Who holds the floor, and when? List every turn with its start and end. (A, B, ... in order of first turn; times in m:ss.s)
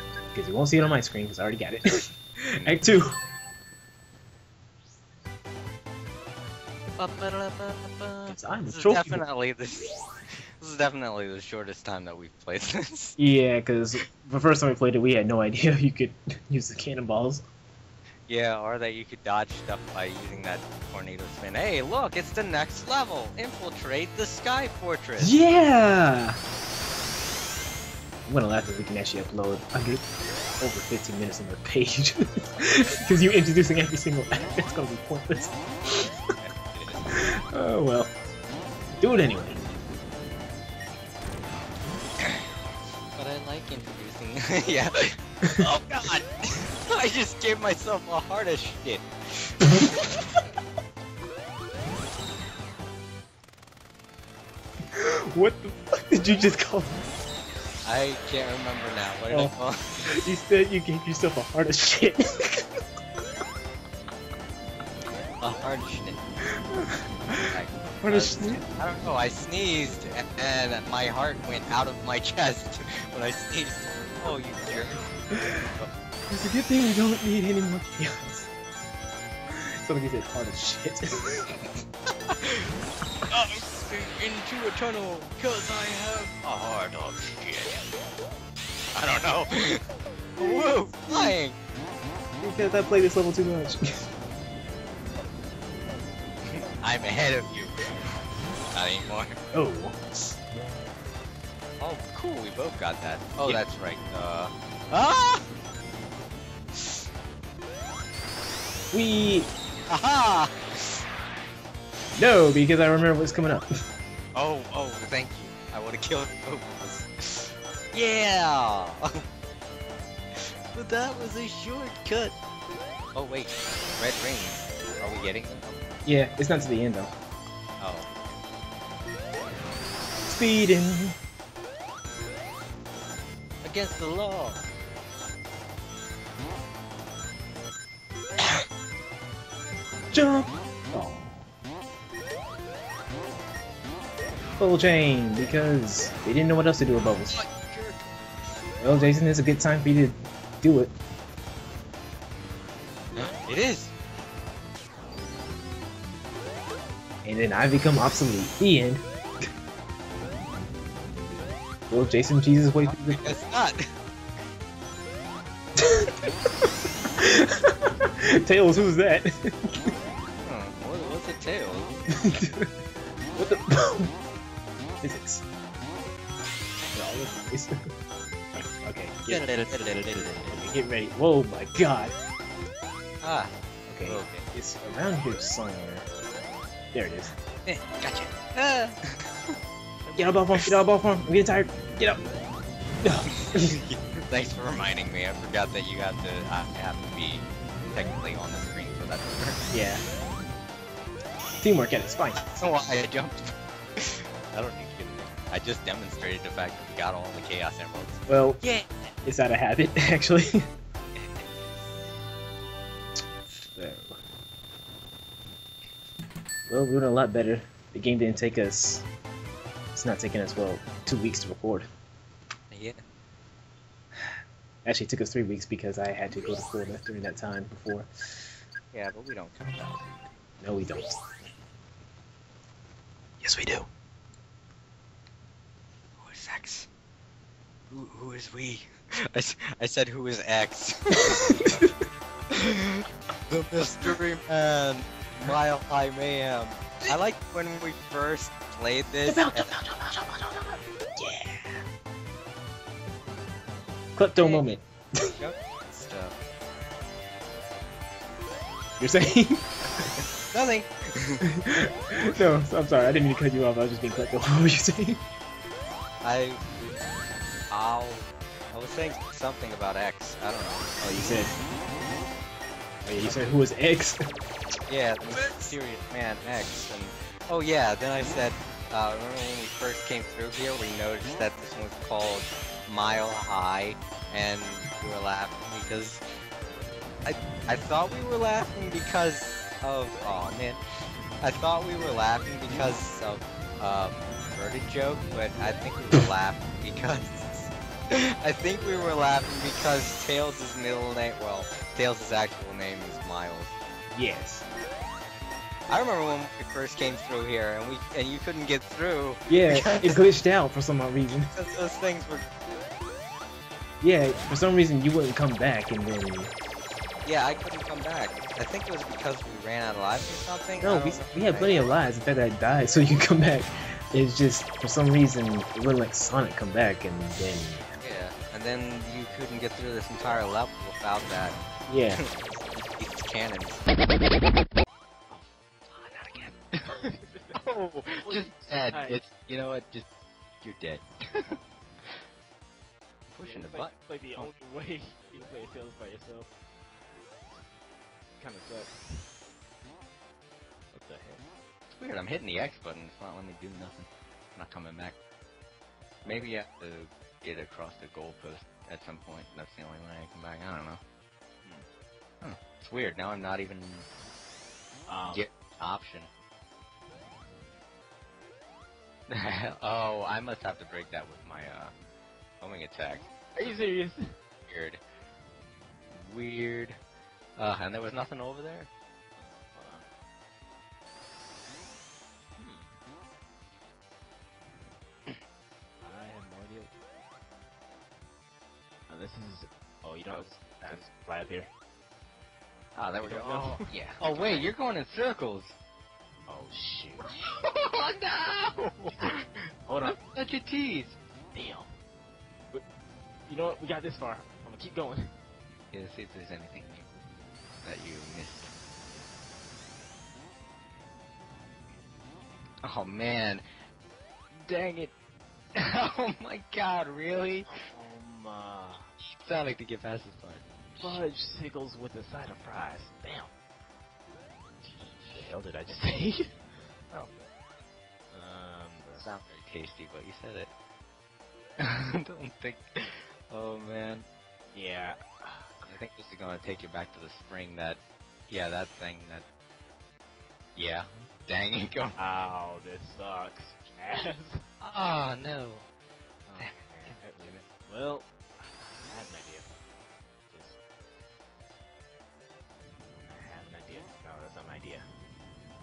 0:00.3-0:03.2 A
0:07.0-0:09.9 B
0:08.3-0:09.2 A
0:10.6-0:13.2 B
0:13.2-0:17.4 A
0:18.3-0:25.3 B
0:25.2-0:26.4 A
0:28.3-0:30.0 A
0:30.6-0:36.1 A
0:36.4-0:37.1 B
0:37.1-0:38.1 A
0:39.0-0:39.6 A
0:43.1-0:50.0 B
0:45.4-0:45.7 A
0:54.9-0:57.0 A
0:57.8-1:00.2 B
1:00.1-1:02.7 A
1:05.4-1:06.2 B
1:06.6-1:08.6 A
1:07.5-1:15.1 B
1:15.4-1:15.6 A
1:15.6-1:15.9 B
1:16.3-1:18.5 A
1:19.5-1:21.8 A
1:22.3-1:22.7 B
1:23.3-1:27.8 B
1:28.9-1:29.8 B
1:30.4-1:31.3 A
1:30.4-1:31.6 B
1:32.4-1:34.1 A
1:36.5-1:38.2 B
1:38.7-1:39.4 B
1:39.5-1:40.0 A
1:41.8-1:45.4 B
1:48.9-1:49.5 A
1:49.9-1:51.0 B
1:52.2-1:53.7 A
1:54.3-1:59.2 B
2:00.3-2:02.4 B
2:03.1-2:05.8 B
2:06.0-2:07.1 A
2:07.8-2:08.1 B
2:10.2-2:11.2 A
2:13.6-2:14.7 B
2:20.1-2:21.4 A
2:24.6-2:27.4 A
2:27.2-2:28.0 B
2:28.8-2:30.9 A
2:33.2-2:33.9 B
2:37.2-2:39.0 A
2:41.9-2:43.3 A
2:42.8-2:43.8 B
2:45.8-2:49.9 A
2:50.4-2:52.2 B
2:52.1-2:52.7 A
2:53.3-2:54.1 A
2:55.0-2:55.4 A
2:56.9-2:57.7 A
2:58.8-2:59.5 A
2:59.3-3:00.6 B
3:00.5-3:02.1 A
3:03.2-3:03.5 B
3:03.9-3:06.1 A
3:04.0-3:04.4 B
3:06.9-3:07.3 A
3:07.6-3:09.5 B
3:10.0-3:10.3 C
3:10.2-3:12.2 A
3:13.0-3:13.7 A
3:13.3-3:19.6 B
3:19.7-3:20.0 A
3:21.6-3:22.7 A
3:22.6-3:28.9 B
3:28.3-3:28.6 A
3:29.2-3:30.7 A
3:31.2-3:31.4 B
3:33.7-3:34.2 A
3:36.7-3:39.0 A
3:39.9-3:41.9 A
3:42.7-3:43.0 B
3:44.8-3:48.4 A
3:48.9-3:50.2 B
3:50.6-3:51.1 A
3:53.4-3:53.9 A
3:56.2-3:56.9 B
3:57.9-4:01.7 B
4:01.3-4:01.9 A
4:02.5-4:09.7 B
4:09.2-4:11.8 A
4:14.2-4:15.4 A
4:14.4-4:14.7 B
4:15.4-4:16.4 B
4:19.0-4:20.1 A
4:20.5-4:21.4 B
4:21.4-4:25.2 A
4:26.2-4:26.6 B
4:27.7-4:30.9 B
4:31.0-4:31.5 A
4:33.0-4:34.2 A
4:34.9-4:46.2 B
4:35.3-4:35.7 A
4:47.2-4:50.8 B
4:51.4-5:03.8 B
5:04.1-5:04.6 A
5:05.9-5:10.2 B
5:09.5-5:11.5 A
5:11.5-5:12.5 B
5:14.0-5:16.5 A
5:17.2-5:21.8 B
5:20.8-5:28.0 A
5:28.0-5:31.6 B
5:31.9-5:32.2 A
5:32.2-5:33.8 B
5:35.3-5:37.6 C
5:37.5-5:40.1 B
5:38.2-5:39.2 C
5:40.6-5:41.6 B
5:43.3-5:44.5 B
5:43.4-5:46.5 C
5:48.4-5:48.9 C
5:50.9-5:51.4 C
5:52.0-5:55.2 B
5:56.2-5:56.5 C
5:56.2-6:01.0 B
6:02.4-6:04.1 B
6:05.1-6:05.5 C
6:05.3-6:06.3 B
6:09.3-6:11.9 B
6:12.6-6:13.3 B
6:13.5-6:14.3 C
6:14.7-6:15.0 B
6:16.1-6:17.0 B
6:17.6-6:18.9 B
6:19.4-6:20.0 C
6:22.6-6:22.9 C
6:26.0-6:27.0 C
6:29.1-6:31.7 C
6:30.3-6:30.6 B
6:32.9-6:35.7 B
6:33.2-6:34.7 C
6:36.5-6:37.3 C
6:37.3-6:39.5 B
6:39.2-6:40.2 C
6:40.0-6:41.2 B
6:41.5-6:41.9 C
6:43.5-6:45.3 C
6:45.9-6:47.1 B
6:47.8-6:48.7 B
6:52.8-6:53.6 B
6:54.6-6:55.1 B
6:55.8-6:57.7 B
6:57.4-6:59.1 C
6:59.4-7:01.2 B
7:01.0-7:03.5 C
7:05.0-7:06.5 C
7:08.3-7:09.3 C
7:09.2-7:10.7 B
7:11.8-7:14.3 B
7:14.7-7:15.9 C
7:15.8-7:19.4 B
7:20.8-7:22.2 B
7:22.2-7:24.6 C
7:24.8-7:25.8 B
7:26.4-7:29.7 C
7:30.5-7:30.8 C
7:33.2-7:35.0 C